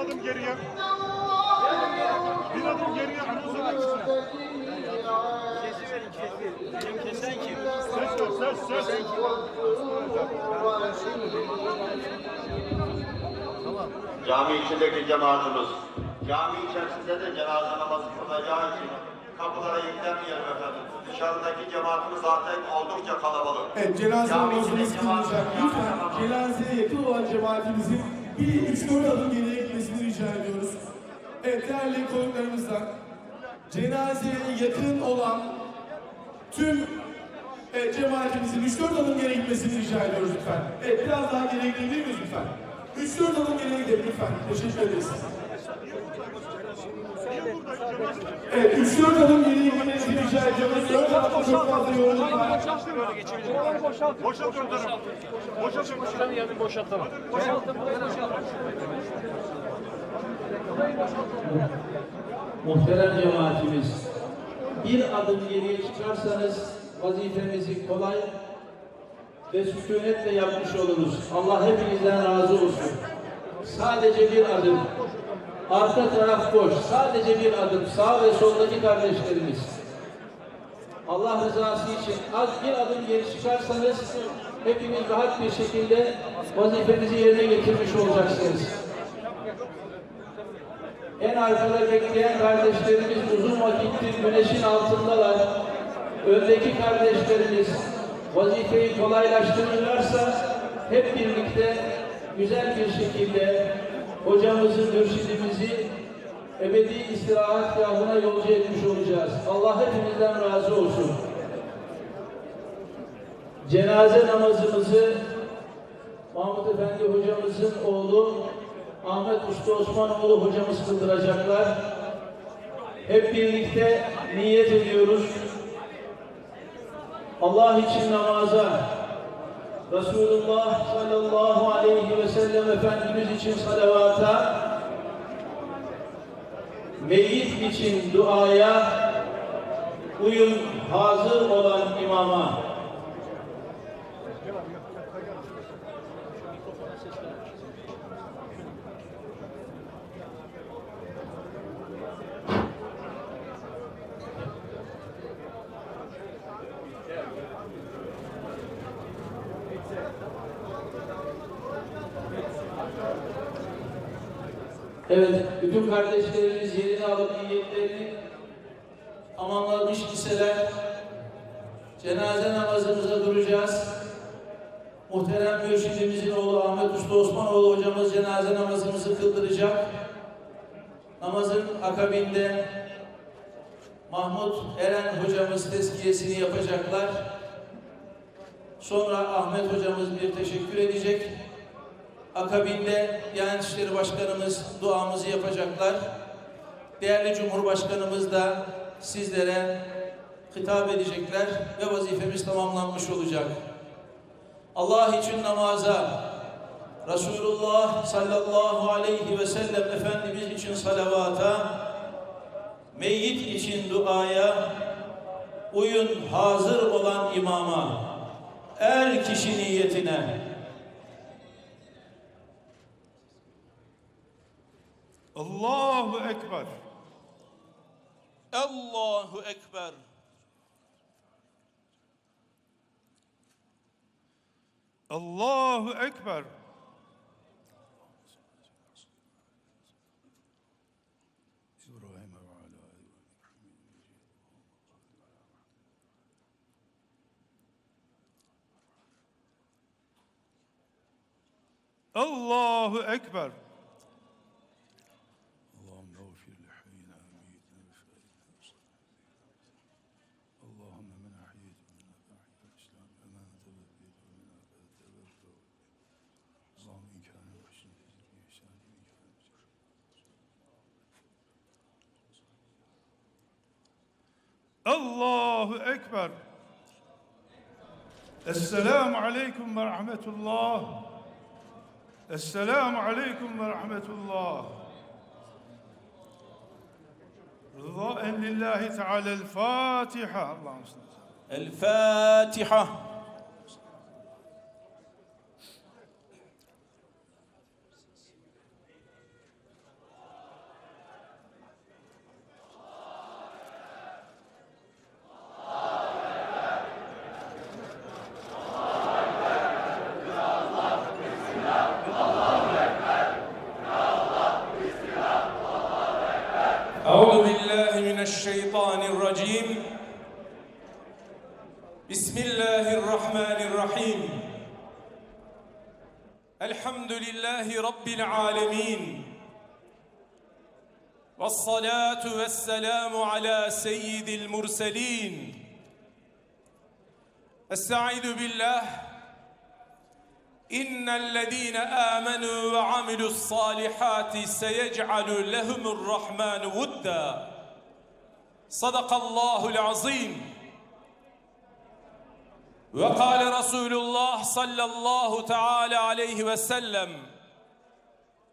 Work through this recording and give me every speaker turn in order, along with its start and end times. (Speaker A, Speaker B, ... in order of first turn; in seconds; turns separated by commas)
Speaker A: 14.2-23.7, Speaker B: 23.7-30.8, Speaker A: 24.2-26.3, Speaker B: 31.4-32.9, Speaker B: 33.7-35.6, Speaker B: 36.5-37.0, Speaker B: 37.7-45.3, Speaker B: 48.5-52.7, Speaker C: 62.6-64.0, Speaker C: 64.8-68.3, Speaker C: 69.5-73.0, Speaker C: 73.6-74.9, Speaker C: 75.7-79.7, Speaker C: 81.1-88.8, Speaker C: 91.2-95.5, Speaker C: 96.2-105.9, Speaker C: 106.6-111.2, Speaker C: 113.6-115.3, Speaker C: 116.3-118.5, Speaker C: 119.0-121.8, Speaker C: 123.0-125.5, Speaker C: 127.4-128.9, Speaker C: 129.9-134.7, Speaker C: 137.0-139.2, Speaker C: 140.2-142.6, Speaker C: 165.1-168.2, Speaker C: 169.4-170.7, Speaker C: 172.0-174.0, Speaker C: 175.1-179.9, Speaker C: 181.2-182.8, Speaker C: 184.1-187.3, Speaker C: 188.8-191.4, Speaker C: 192.3-196.1, Speaker C: 197.0-199.9, Speaker C: 200.5-203.6, Speaker C: 204.8-206.3, Speaker C: 207.0-211.8, Speaker C: 212.9-214.8, Speaker C: 215.7-218.1, Speaker C: 218.8-220.4, Speaker D: 225.4-226.7, Speaker C: 228.5-230.0, Speaker D: 235.1-236.5, Speaker D: 242.1-242.9, Speaker D: 252.2-253.6, Speaker B: 255.9-258.1, Speaker D: 260.7-261.8, Speaker B: 263.3-265.4, Speaker D: 266.9-267.6, Speaker B: 267.6-268.2, Speaker D: 274.9-276.4, Speaker D: 278.5-281.1, Speaker D: 282.3-284.7, Speaker D: 287.8-291.1, Speaker C: 291.5-293.1, Speaker E: 317.0-319.9, Speaker E: 322.1-324.5, Speaker E: 326.6-329.4, Speaker E: 331.4-335.7, Speaker E: 337.7-339.2, Speaker E: 340.7-347.6, Speaker E: 348.7-350.5, Speaker E: 352.9-357.3